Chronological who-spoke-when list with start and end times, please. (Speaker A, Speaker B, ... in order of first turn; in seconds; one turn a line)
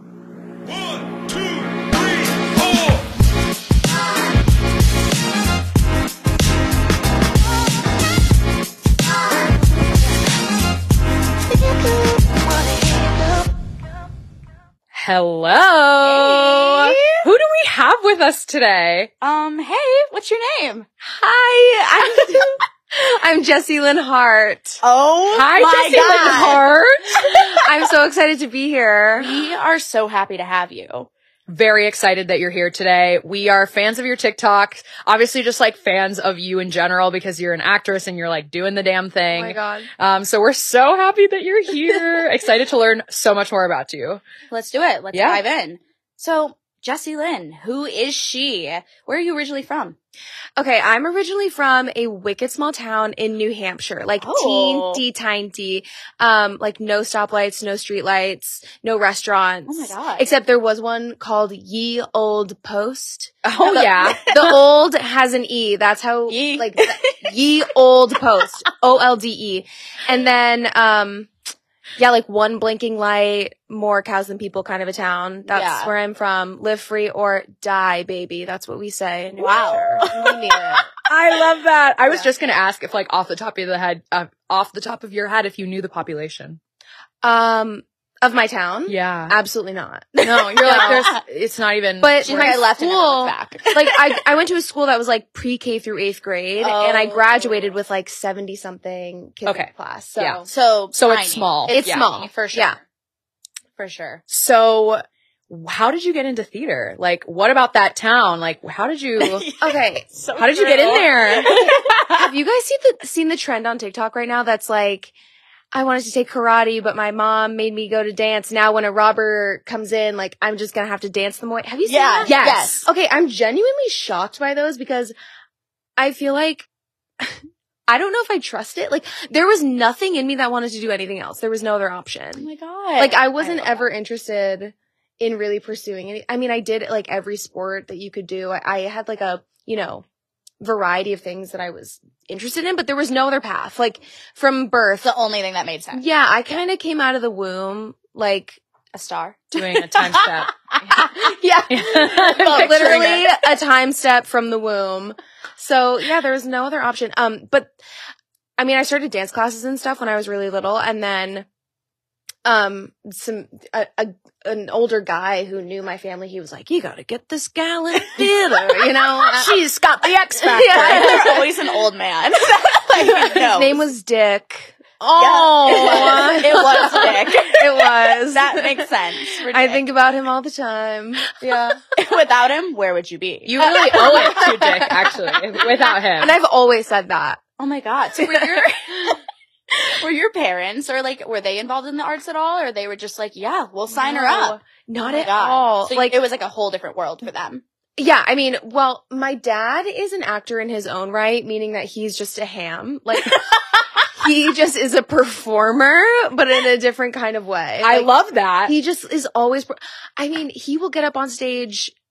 Speaker A: 11.7-13.4
Speaker B: 14.9-19.1
Speaker A: 16.0-17.2
Speaker A: 19.2-20.9
Speaker C: 21.0-24.8
Speaker A: 24.8-26.6
Speaker B: 25.3-27.5
Speaker C: 26.1-26.6
Speaker C: 27.2-29.4
Speaker A: 29.2-31.1
Speaker B: 31.5-44.2
Speaker C: 39.3-39.9
Speaker A: 44.5-50.0
Speaker B: 45.1-45.4
Speaker C: 50.6-71.3
Speaker A: 54.2-55.0
Speaker A: 59.7-60.3
Speaker B: 63.4-64.3
Speaker A: 63.6-64.6
Speaker A: 66.3-67.3
Speaker C: 72.0-80.9
Speaker A: 75.5-75.9
Speaker A: 79.4-80.9
Speaker B: 81.0-86.6
Speaker C: 87.2-91.1
Speaker B: 88.9-89.3
Speaker A: 90.2-91.2
Speaker B: 90.2-92.6
Speaker C: 92.0-100.5
Speaker A: 92.2-94.2
Speaker A: 96.6-97.7
Speaker B: 99.4-102.1
Speaker A: 100.4-102.8
Speaker C: 101.7-102.8
Speaker A: 103.8-104.2
Speaker B: 104.3-109.5
Speaker A: 109.2-112.3
Speaker C: 109.6-115.1
Speaker B: 110.3-111.2
Speaker C: 115.7-125.1
Speaker A: 121.8-122.9
Speaker B: 122.2-122.8
Speaker C: 126.0-126.7
Speaker C: 127.2-140.0
Speaker A: 132.4-133.8
Speaker C: 140.6-145.1
Speaker A: 145.0-146.1
Speaker C: 145.9-148.6
Speaker A: 148.9-151.7
Speaker B: 149.5-150.9
Speaker C: 150.9-157.7
Speaker B: 151.7-153.2
Speaker A: 152.3-153.3
Speaker C: 158.6-161.5
Speaker C: 162.4-169.6
Speaker A: 169.3-173.8
Speaker C: 170.3-171.6
Speaker B: 170.5-171.3
Speaker C: 173.0-178.9
Speaker A: 175.1-179.8
Speaker C: 179.4-181.8
Speaker A: 181.9-184.8
Speaker B: 183.4-186.3
Speaker C: 183.6-185.2
Speaker C: 186.2-187.4
Speaker A: 187.6-189.2
Speaker C: 188.2-189.2
Speaker A: 189.8-197.6
Speaker C: 193.9-196.2
Speaker C: 198.0-203.4
Speaker A: 203.2-203.8
Speaker C: 204.1-208.1
Speaker B: 207.8-208.7
Speaker C: 208.6-211.9